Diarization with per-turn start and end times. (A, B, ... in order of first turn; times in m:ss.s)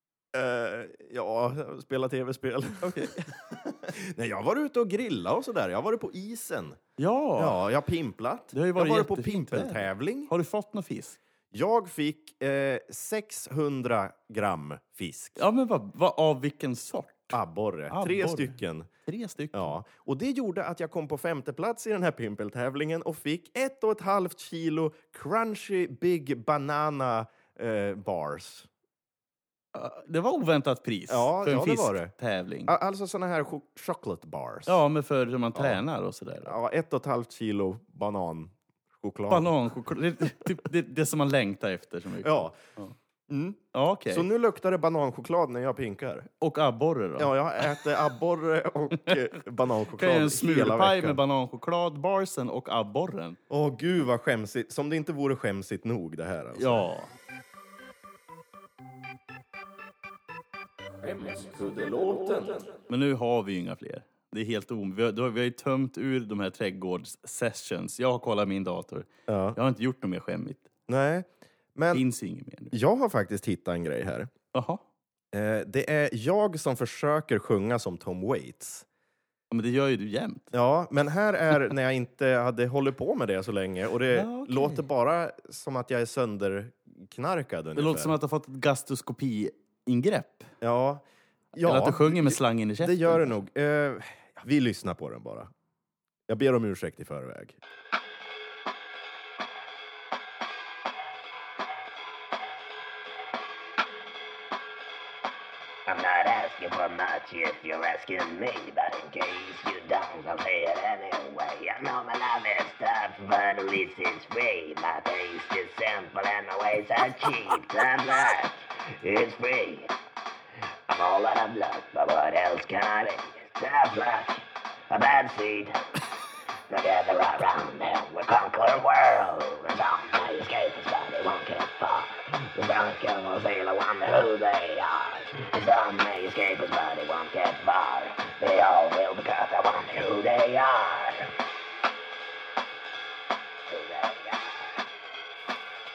0:00.3-0:06.8 A
0:02.8-0:03.3 B
0:07.0-0:07.6 B
0:07.4-0:10.3 A
0:08.5-0:11.2 B
0:11.5-0:15.4 A
0:15.4-0:17.4 B
0:17.3-0:18.9 A
0:17.9-0:19.7 B
0:19.5-0:28.7 A
0:29.7-0:32.7 B
0:31.1-0:32.1 A
0:32.6-0:34.8 A
0:34.7-0:36.5 B
0:35.5-0:35.8 A
0:36.4-0:39.5 A
0:39.3-0:42.9 B
0:42.2-0:42.6 A
0:43.3-0:46.3 A
0:43.7-0:44.2 B
0:46.4-0:47.8 B
0:47.2-0:51.2 A
0:49.9-0:53.4 B
0:53.5-0:56.8 A
0:56.6-0:57.1 B
1:01.0-1:02.7 A
1:02.9-1:10.6 B
1:09.3-1:09.6 A
1:10.9-1:12.0 A
1:11.9-1:12.7 B
1:12.7-1:14.3 A
1:14.5-1:14.8 B
1:15.3-1:18.8 A
1:19.5-1:20.5 B
1:20.5-1:28.2 A
1:24.1-1:24.8 B
1:27.8-1:30.5 B
1:30.6-1:35.5 A
1:31.6-1:33.3 B
1:36.3-1:37.6 A
1:45.9-1:59.9 C
2:00.9-2:05.8 C
2:06.7-2:21.3 C
2:23.7-2:24.8 C